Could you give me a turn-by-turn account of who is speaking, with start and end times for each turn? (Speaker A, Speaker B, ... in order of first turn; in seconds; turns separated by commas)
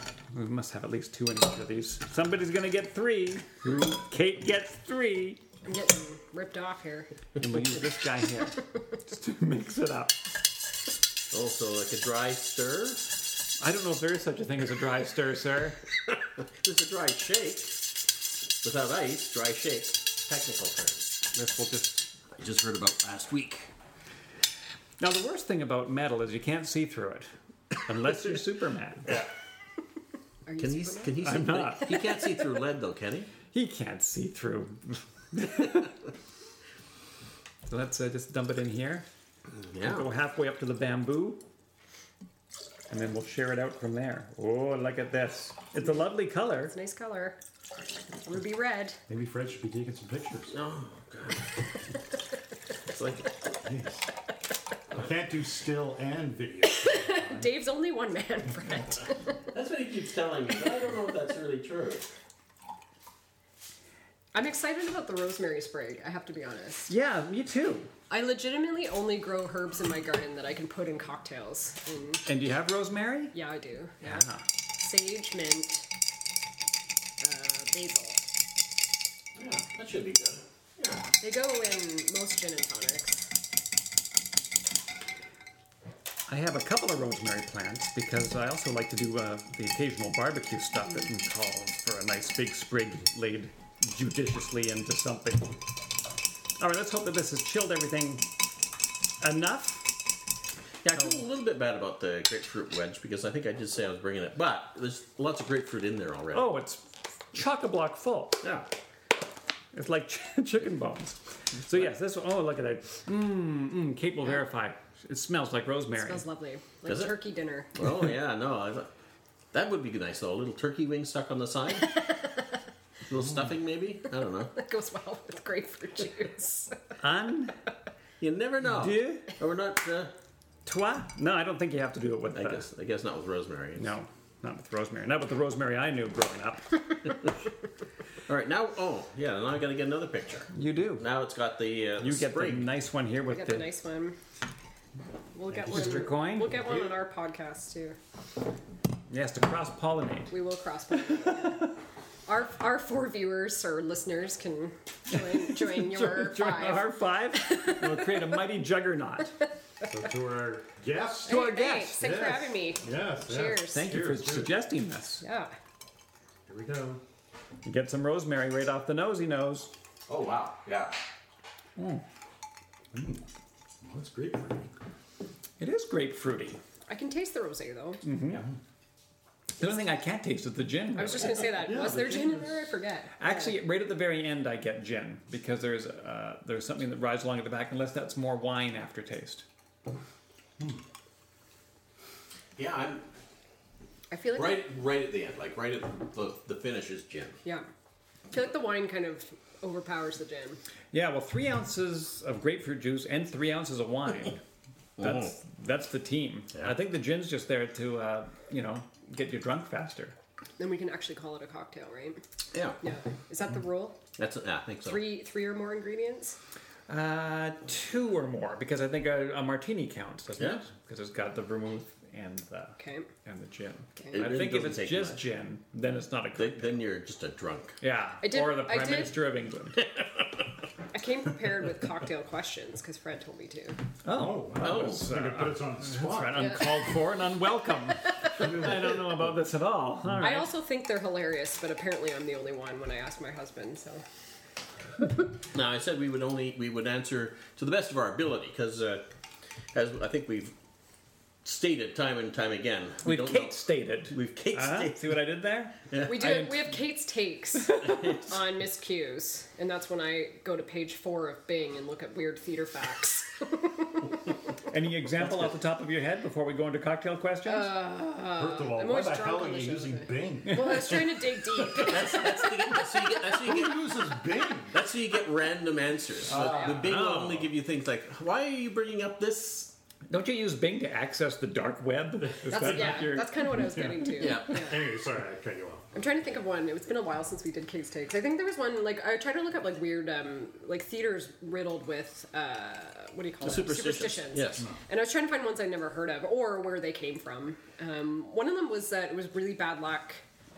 Speaker A: 0.3-5.4, Speaker B: 3.6-3.9, Speaker C: 5.7-7.1, Speaker A: 7.4-10.2, Speaker B: 11.3-13.0, Speaker A: 13.6-15.8, Speaker B: 16.5-17.8, Speaker B: 18.6-21.1, Speaker A: 21.3-22.1, Speaker B: 22.4-23.7, Speaker A: 25.0-27.3, Speaker A: 27.9-29.1, Speaker C: 30.4-31.4, Speaker B: 30.6-33.3, Speaker A: 31.2-32.4, Speaker A: 33.5-35.9, Speaker A: 37.7-39.0, Speaker B: 39.5-40.0, Speaker A: 39.8-41.4, Speaker A: 42.9-46.7, Speaker C: 46.5-47.4, Speaker C: 48.2-49.0, Speaker D: 49.1-50.5, Speaker B: 50.5-51.5, Speaker B: 52.9-53.3, Speaker D: 53.6-54.0, Speaker D: 54.9-57.5, Speaker C: 56.8-59.4, Speaker B: 59.5-62.0, Speaker C: 64.3-66.9, Speaker A: 66.9-67.9, Speaker C: 68.1-72.2, Speaker A: 72.2-73.3, Speaker C: 73.3-74.2, Speaker A: 74.0-74.4, Speaker C: 74.8-75.9, Speaker C: 77.2-78.2, Speaker B: 79.3-81.1, Speaker C: 81.2-83.3, Speaker A: 86.3-95.5, Speaker A: 96.6-98.2, Speaker A: 99.2-99.9, Speaker B: 100.8-106.5, Speaker A: 106.3-108.4, Speaker B: 108.4-108.7, Speaker A: 109.7-116.2, Speaker B: 111.6-111.9, Speaker C: 116.0-117.7, Speaker B: 116.8-117.2, Speaker B: 117.7-118.9, Speaker B: 119.5-122.0, Speaker B: 123.1-124.5, Speaker C: 124.5-126.8, Speaker A: 127.0-127.5, Speaker B: 128.2-130.1, Speaker A: 128.7-129.2, Speaker A: 130.7-132.6, Speaker B: 132.3-133.8, Speaker A: 133.8-137.1, Speaker B: 138.3-142.7, Speaker A: 140.5-141.1, Speaker A: 142.0-143.7, Speaker C: 143.3-144.2, Speaker C: 145.3-148.0, Speaker A: 145.6-146.6, Speaker D: 145.7-146.0, Speaker A: 149.1-150.3, Speaker C: 150.3-151.7, Speaker A: 151.1-151.5, Speaker C: 152.2-158.3, Speaker A: 155.1-159.3, Speaker D: 159.8-164.6, Speaker C: 161.2-163.9, Speaker A: 161.2-162.2, Speaker A: 163.7-165.2, Speaker C: 165.2-165.5, Speaker D: 166.5-167.0, Speaker A: 167.6-169.7, Speaker B: 170.1-171.0, Speaker A: 171.8-172.0, Speaker D: 172.9-173.2, Speaker D: 173.8-174.7, Speaker A: 175.6-176.6, Speaker C: 176.9-178.0, Speaker A: 178.0-178.4, Speaker D: 178.3-178.6, Speaker A: 179.6-181.6, Speaker C: 180.9-183.6, Speaker D: 181.6-182.7, Speaker A: 183.2-189.4, Speaker B: 192.6-193.0, Speaker C: 194.1-194.6, Speaker B: 194.3-197.4, Speaker C: 198.3-200.6, Speaker A: 200.9-204.4, Speaker B: 205.0-205.3, Speaker A: 205.0-210.1, Speaker C: 210.6-212.2, Speaker C: 212.8-214.0, Speaker B: 214.2-215.0, Speaker C: 214.8-216.4, Speaker A: 216.9-226.8, Speaker C: 222.8-223.1, Speaker C: 224.0-224.2, Speaker B: 224.1-225.2, Speaker B: 226.3-227.8, Speaker A: 227.8-229.8, Speaker C: 228.2-229.1, Speaker C: 230.9-233.8, Speaker A: 234.0-240.5, Speaker D: 234.1-236.7, Speaker B: 234.6-235.1, Speaker D: 238.3-239.0, Speaker C: 240.2-244.0, Speaker B: 245.5-249.0, Speaker B: 249.7-250.5, Speaker B: 251.4-255.1, Speaker A: 253.0-256.7, Speaker B: 255.9-256.3, Speaker C: 256.0-264.1, Speaker B: 257.8-258.3, Speaker A: 264.7-267.8, Speaker B: 265.2-265.5, Speaker C: 267.4-273.1, Speaker D: 268.4-271.2, Speaker B: 271.8-273.9, Speaker D: 273.4-274.8, Speaker B: 274.7-279.7, Speaker D: 276.3-277.5, Speaker C: 276.4-276.8, Speaker A: 276.9-277.3, Speaker A: 280.1-283.5, Speaker C: 282.4-284.8, Speaker D: 282.5-285.9, Speaker B: 284.2-284.7, Speaker C: 285.9-300.2, Speaker B: 293.4-294.6